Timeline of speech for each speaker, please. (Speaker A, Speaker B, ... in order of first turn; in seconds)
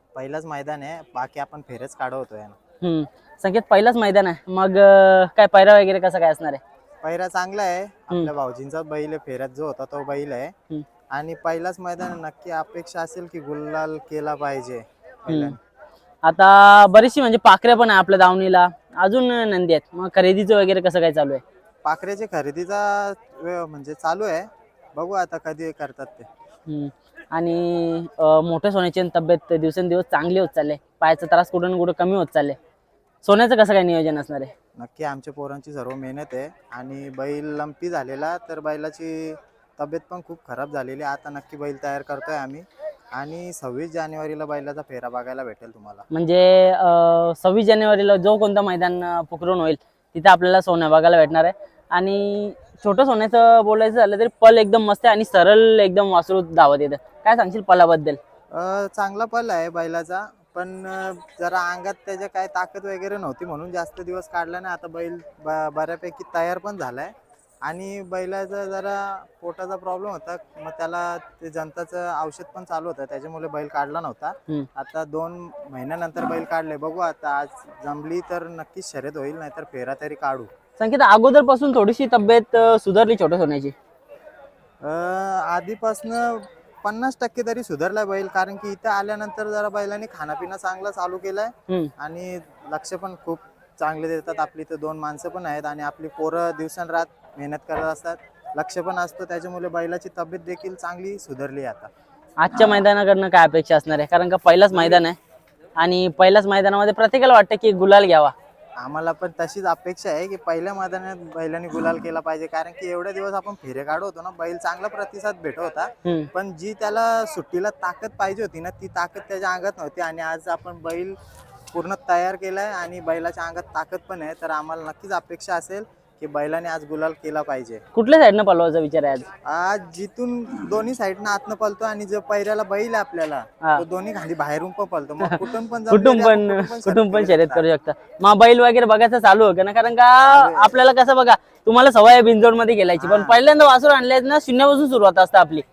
Speaker A: 0.1-2.6, 7.0-10.5, 11.1-15.6, 21.8-26.3, 34.8-46.0, 58.5-67.1, 67.6-80.5, 84.8-101.9, 102.5-102.8, 104.7-105.0, 108.8-121.2, 121.7-127.8, 129.4-137.7, 140.2-140.8, 143.0-143.4
Speaker B: 2.8-6.6, 15.3-15.5, 16.2-21.4, 26.7-32.6, 33.2-34.5, 46.1-58.2, 80.8-83.7, 102.4-105.2, 105.8-108.3, 116.0-116.3, 127.9-129.3, 135.2-145.6